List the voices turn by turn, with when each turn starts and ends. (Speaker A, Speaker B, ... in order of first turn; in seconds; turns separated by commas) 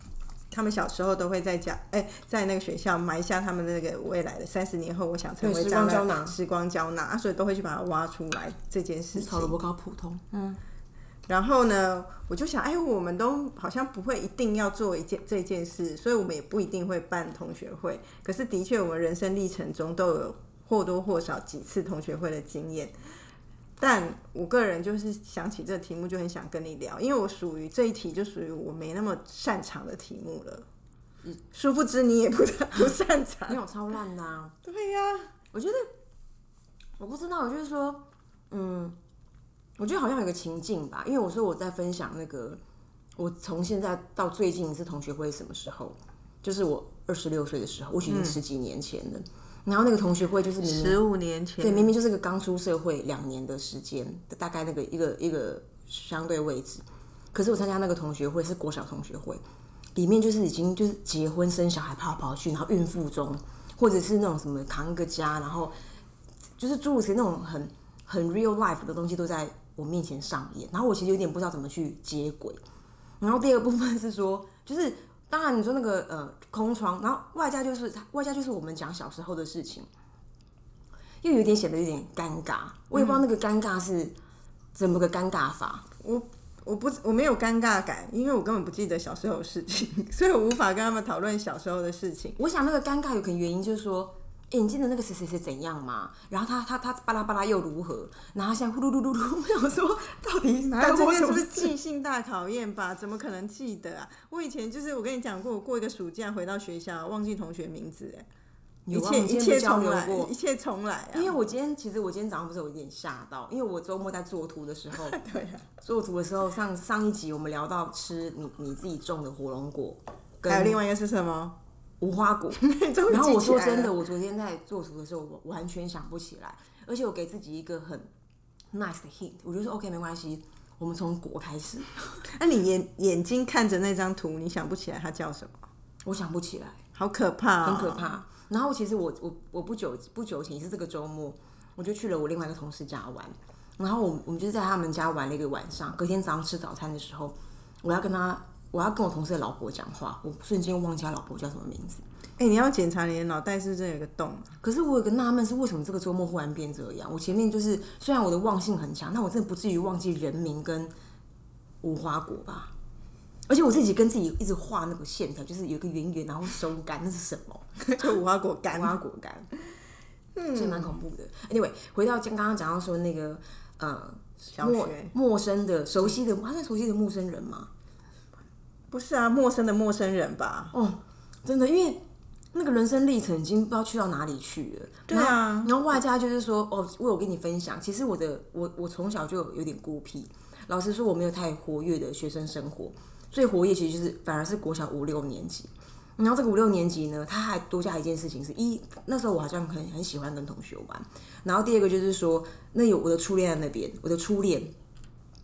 Speaker A: 0.5-9.6, Speaker B: 5.4-6.4, Speaker B: 9.2-10.6, Speaker A: 11.3-23.0, Speaker A: 23.8-30.7, Speaker A: 31.5-33.6, Speaker B: 33.5-34.5, Speaker A: 34.6-35.3, Speaker B: 35.5-35.9, Speaker B: 37.0-39.0, Speaker B: 39.8-42.6, Speaker B: 43.2-51.0, Speaker A: 48.1-48.4, Speaker A: 50.6-51.9, Speaker B: 51.6-59.4, Speaker B: 60.0-65.8, Speaker B: 66.6-72.6, Speaker B: 73.2-79.9, Speaker B: 81.2-84.2, Speaker A: 82.9-83.2, Speaker B: 84.8-85.8, Speaker A: 86.0-92.4, Speaker B: 92.4-101.7, Speaker A: 100.7-108.3, Speaker B: 108.9-110.3, Speaker A: 108.9-111.4, Speaker B: 111.1-115.2, Speaker A: 114.9-115.7, Speaker B: 115.8-120.8, Speaker A: 120.5-121.6, Speaker B: 122.0-128.1, Speaker A: 122.6-123.9, Speaker B: 128.7-131.9, Speaker A: 132.2-135.7, Speaker B: 136.1-136.8, Speaker A: 136.9-138.1, Speaker B: 137.6-152.0, Speaker A: 152.4-154.6, Speaker B: 154.6-160.9, Speaker B: 161.8-162.7, Speaker B: 163.5-167.7, Speaker A: 167.9-169.0, Speaker B: 168.7-169.5, Speaker A: 170.3-171.0, Speaker B: 170.5-177.7, Speaker A: 174.5-175.1, Speaker A: 178.9-180.7, Speaker B: 180.7-182.0, Speaker B: 182.5-204.7, Speaker A: 185.1-185.7